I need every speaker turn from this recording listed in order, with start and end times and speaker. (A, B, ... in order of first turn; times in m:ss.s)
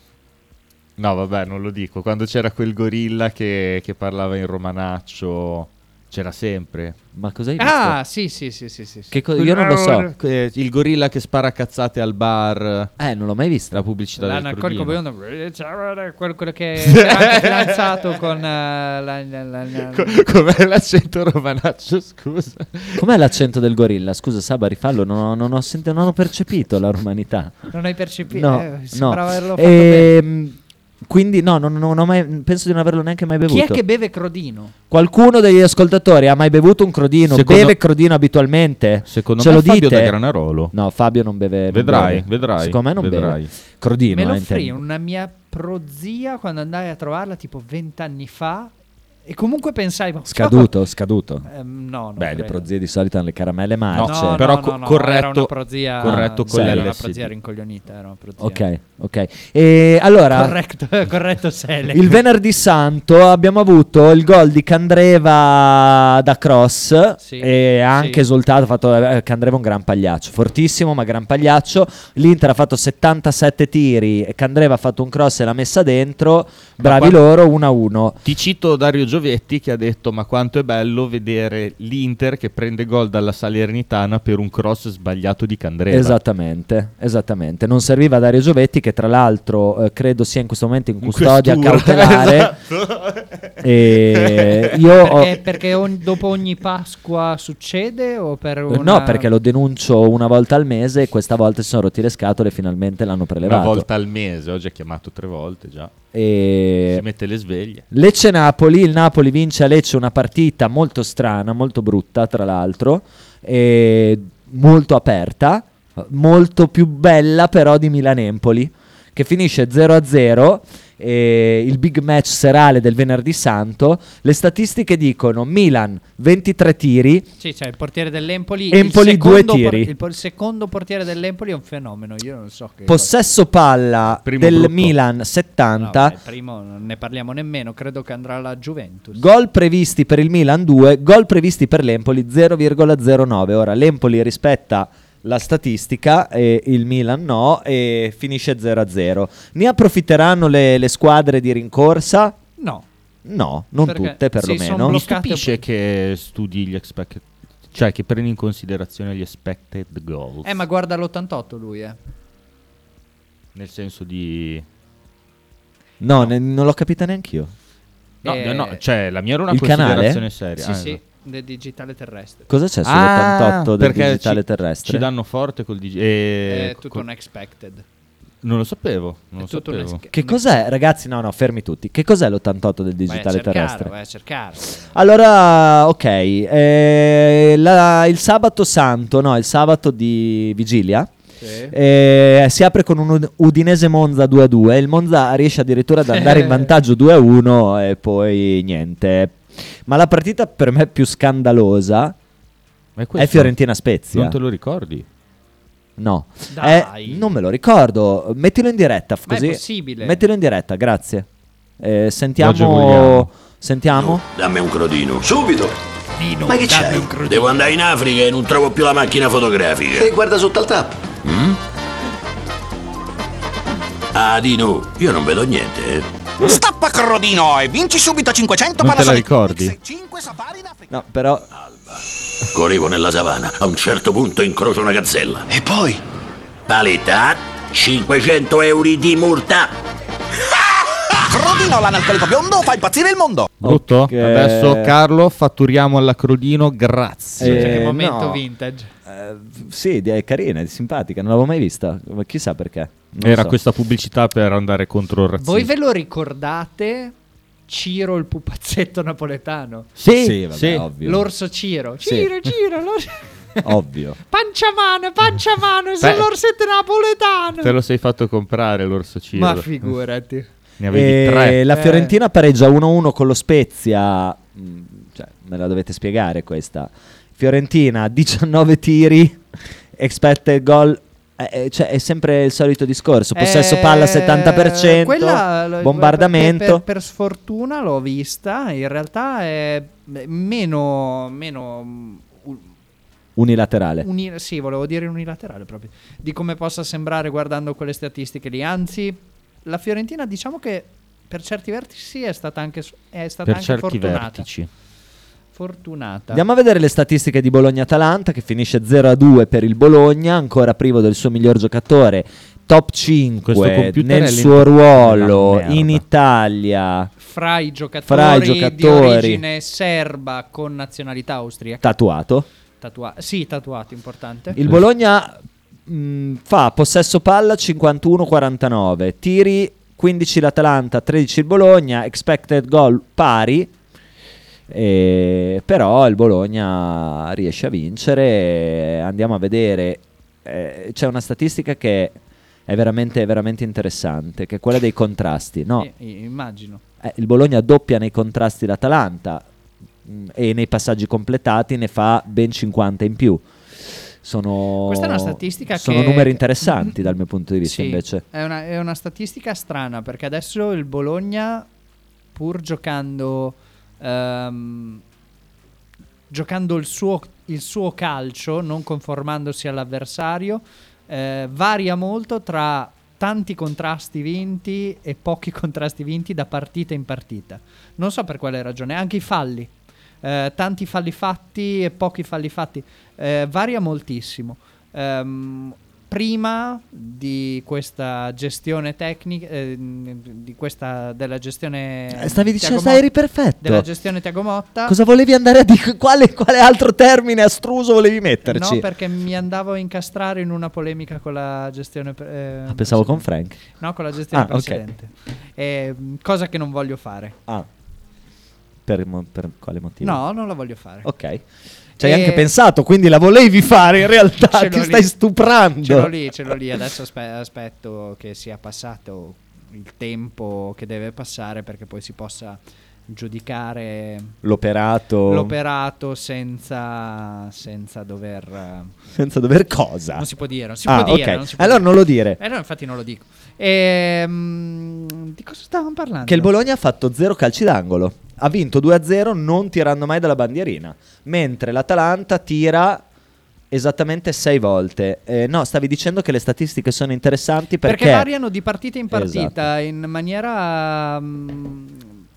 0:01.0-0:07.0 A
0:07.1-0:08.0 B
0:07.6-0:09.5 C
0:09.1-0:10.1 B
0:09.4-0:12.9 A
0:13.0-0:13.8 B
0:13.7-0:15.0 A
0:14.2-0:20.2 C
0:16.8-0:18.0 A
0:19.9-0:23.0 A
0:23.0-0:27.7 B
0:27.7-0:30.1 C
0:28.3-0:33.8 B
0:33.5-0:34.7 C
0:34.9-0:40.1 B
0:37.3-0:37.8 A
0:39.1-0:40.7 A
0:40.7-0:44.8 B
0:41.7-0:43.5 A
0:44.1-0:48.7 C
0:49.2-0:50.7 C
0:50.3-0:51.4 B
0:51.4-0:52.6 C
0:52.3-0:54.4 B
0:53.9-0:57.3 A
0:54.0-0:58.6 C
0:56.0-0:56.9 B
0:58.4-1:00.5 B
1:00.3-1:02.2 C
1:01.9-1:18.2 B
1:07.2-1:08.2 C
1:16.8-1:17.2 A
1:18.2-1:26.2 A
1:25.9-1:32.6 B
1:31.0-1:33.5 A
1:33.6-1:35.4 B
1:34.0-1:34.7 A
1:35.0-1:39.3 C
1:38.7-1:43.9 B
1:43.4-1:45.9 A
1:46.1-1:47.0 B
1:46.9-1:47.8 A
1:47.9-2:07.3 B
2:07.4-2:13.1 C
2:08.7-2:09.9 B
2:12.9-2:16.2 B
2:14.2-2:14.9 A
2:15.8-2:19.2 C
2:19.1-2:32.3 B
2:32.6-2:32.9 C
2:33.2-2:35.0 B
2:33.8-2:35.6 C
2:34.8-2:40.6 A
2:40.4-2:42.0 C
2:43.5-2:44.6 A
2:46.0-2:47.5 B
2:48.2-2:48.8 C
2:48.2-2:51.0 A
2:49.5-2:50.2 B
2:50.6-2:52.5 C
2:52.5-2:55.0 B
2:52.8-2:57.0 A
2:56.4-2:57.8 C
2:58.4-3:00.0 A
2:59.4-3:00.4 C
3:00.1-3:03.9 B
3:03.1-3:05.0 C
3:04.9-3:11.1 B
3:11.4-3:11.7 C
3:11.7-3:22.1 B
3:16.1-3:16.7 C
3:23.0-3:23.5 A
3:23.2-3:24.4 B
3:24.1-3:25.0 A
3:26.0-3:31.3 B
3:26.5-3:27.3 C
3:29.3-3:30.2 C
3:31.8-3:34.2 B
3:32.4-3:33.3 A
3:33.9-3:35.7 D
3:36.2-3:37.8 C
3:36.5-3:41.6 D
3:44.1-3:46.5 D
3:46.4-3:50.8 E
3:48.8-3:49.8 A
3:50.9-3:51.5 B
3:52.5-3:55.7 D
3:55.6-3:56.0 E
3:56.7-3:59.7 D
4:01.3-4:03.5 E
4:03.6-4:04.9 B
4:03.6-4:07.8 A
4:07.4-4:08.4 B
4:07.4-4:08.9 C
4:09.0-4:13.6 B
4:13.2-4:15.7 A
4:15.4-4:17.1 C
4:17.7-4:19.9 C
4:20.0-4:20.8 A
4:20.1-4:21.3 B
4:21.0-4:23.6 C
4:22.0-4:22.3 B
4:23.6-4:24.2 B
4:24.3-4:27.7 C
4:27.6-4:29.9 A
4:29.4-4:30.5 C
4:30.8-4:31.6 A
4:30.9-4:39.4 B
4:31.7-4:32.1 C
4:40.0-4:46.8 B
4:43.3-4:52.6 C
4:53.4-4:54.1 B
4:54.0-5:04.5 C
5:03.4-5:04.7 A
5:05.5-5:06.4 C
5:06.3-5:17.1 B
5:13.4-5:16.0 A
5:17.2-5:21.8 C
5:18.0-5:19.4 B
5:21.8-5:22.5 B
5:22.8-5:24.6 C
5:24.5-5:33.7 B
5:34.7-5:45.9 B
5:45.8-5:46.8 C
5:47.0-5:49.4 B
5:50.0-5:53.4 B
5:54.2-5:58.2 B
5:54.8-5:56.9 C
5:57.6-6:01.7 C
6:02.3-6:05.0 C
6:06.3-6:19.7 C
6:20.2-6:33.0 C
6:32.1-6:33.8 B
6:33.6-6:34.9 C
6:34.8-6:38.8 B
6:38.4-6:43.2 C
6:42.7-6:43.6 B
6:43.8-6:47.4 C
6:44.3-6:44.8 B
6:48.8-6:50.2 B
6:50.0-6:51.1 C
6:51.0-6:51.4 B
6:52.0-6:56.1 B
6:52.0-6:52.5 C
6:54.4-6:55.1 C
6:55.8-7:04.4 C
7:04.4-7:05.5 B
7:05.3-7:08.9 C
7:09.1-7:10.3 B
7:10.2-7:16.5 C
7:10.8-7:12.4 B
7:16.2-7:23.0 B
7:23.7-7:28.3 B
7:27.8-7:32.1 C
7:29.1-7:29.6 B